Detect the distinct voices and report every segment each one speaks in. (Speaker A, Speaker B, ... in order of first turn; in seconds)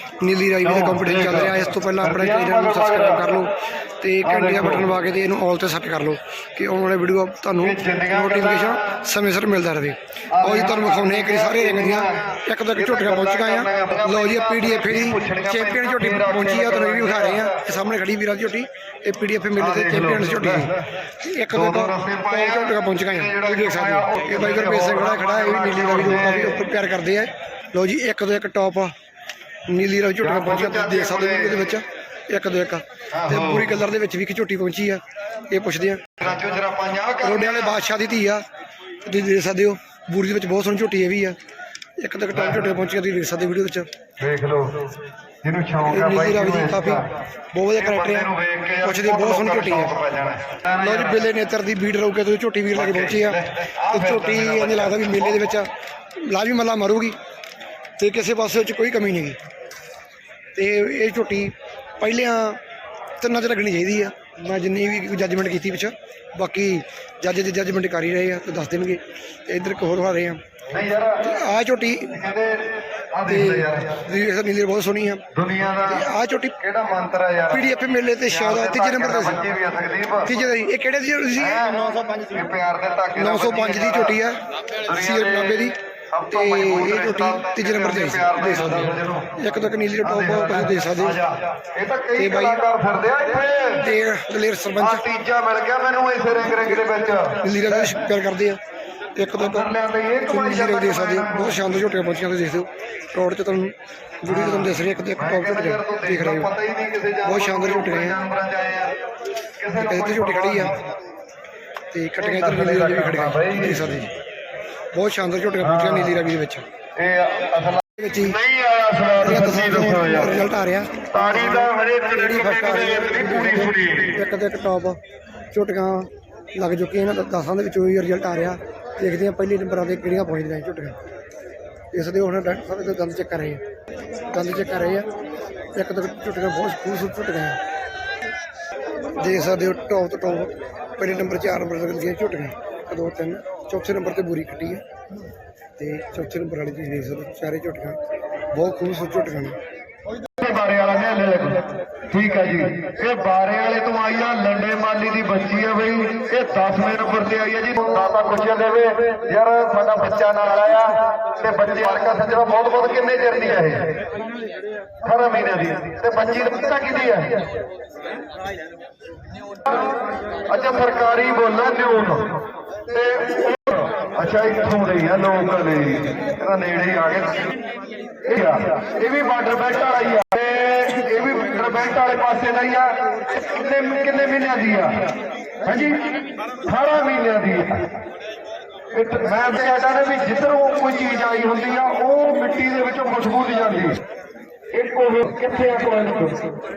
Speaker A: 0.2-28.9, 29.7-36.1, 37.2-38.4, 39.0-41.4, 42.0-43.9, 45.8-47.0, 47.5-48.3, 48.8-49.9, 50.8-57.2, 58.0-59.4, 60.5-62.6, 63.2-70.4, 71.2-72.2, 73.3-75.2, 75.9-76.6, 77.5-79.4, 80.2-81.6, 83.2-85.8, 86.3-91.2, 92.2-92.6, 93.8-95.0, 97.4-98.6, 99.2-99.7, 100.3-106.5, 107.2-108.2, 109.8-110.7, 111.9-114.1, 114.9-116.7, 118.0-118.4, 119.2-125.0, 125.5-131.0, 131.9-133.6, 134.3-135.1, 135.7-137.6, 139.2-144.8, 145.8-148.0, 148.5-149.6
Speaker B: 0.6-3.4, 4.2-5.0, 7.6-9.0, 10.3-17.7, 19.6-20.8, 21.5-26.6, 30.2-31.8, 33.1-33.8, 36.2-37.8, 42.3-42.7, 44.2-47.0, 47.7-51.3, 52.7-55.5, 70.7-71.2, 72.1-74.0, 75.3-76.1, 76.6-77.7, 78.2-80.3, 81.3-84.2, 84.8-89.4, 90.0-93.9, 94.8-98.0, 99.4-101.7, 104.3-109.0, 109.6-110.8, 112.2-113.9, 115.6-116.2, 117.0-120.4, 121.1-124.2, 150.2-164.0, 165.0-167.5, 169.7-177.5, 178.2-187.9, 188.9-194.0, 194.7-196.5